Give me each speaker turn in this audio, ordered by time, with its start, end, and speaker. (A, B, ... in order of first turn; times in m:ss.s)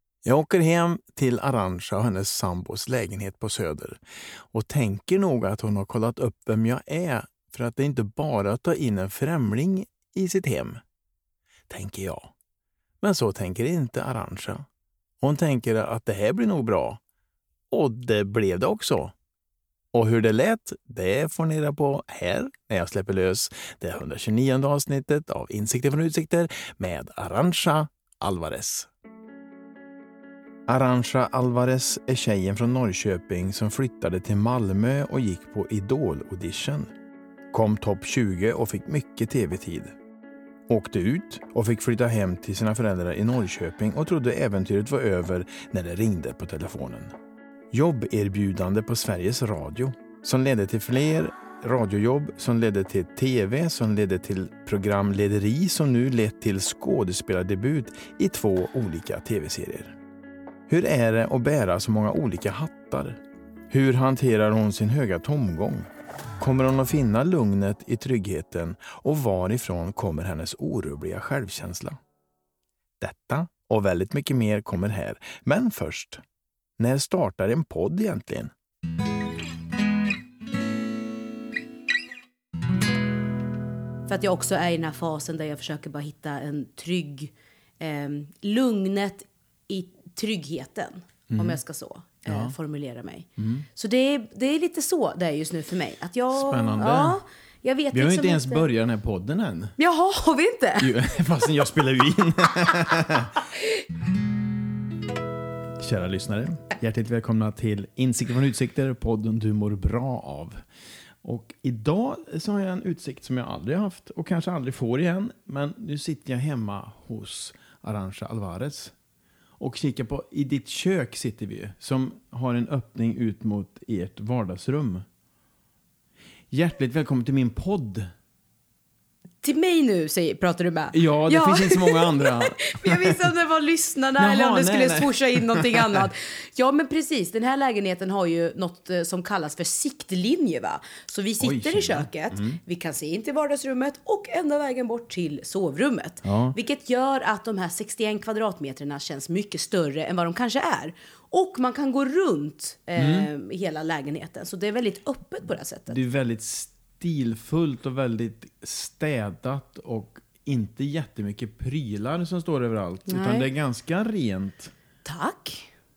0:00.2-0:04.0 A
0:04.5-0:10.8 A
0:11.7-0:12.3 A
0:13.0-0:14.7 A
0:15.2-0:17.0 A
0:17.7-0:19.1 A
0:19.9-0:28.9 A
0:30.7-0:36.9 A
0:37.5-0:40.0 A
0:40.7-0:47.1 A
0:47.7-1:00.0 A
1:00.7-1:05.9 A
1:06.4-1:12.0 A
1:13.0-1:16.2 A
1:16.8-1:18.5 A
1:24.1-1:38.7 B
1:31.3-1:31.6 A
1:32.3-1:32.6 A
1:33.4-1:33.7 A
1:36.3-1:37.2 A
1:37.9-1:39.7 A
1:39.8-1:41.1 B
1:40.8-1:43.4 A
1:45.8-1:50.6 A
1:51.2-1:58.9 A
1:59.6-2:05.0 A
2:06.5-2:08.1 A
2:09.4-2:36.0 B
2:10.9-2:13.2 A
2:14.2-2:16.1 A
2:21.4-2:22.6 A
2:26.2-2:26.6 A
2:33.0-2:33.3 A
2:35.9-2:44.7 A
2:43.1-2:43.5 B
2:45.0-2:45.7 B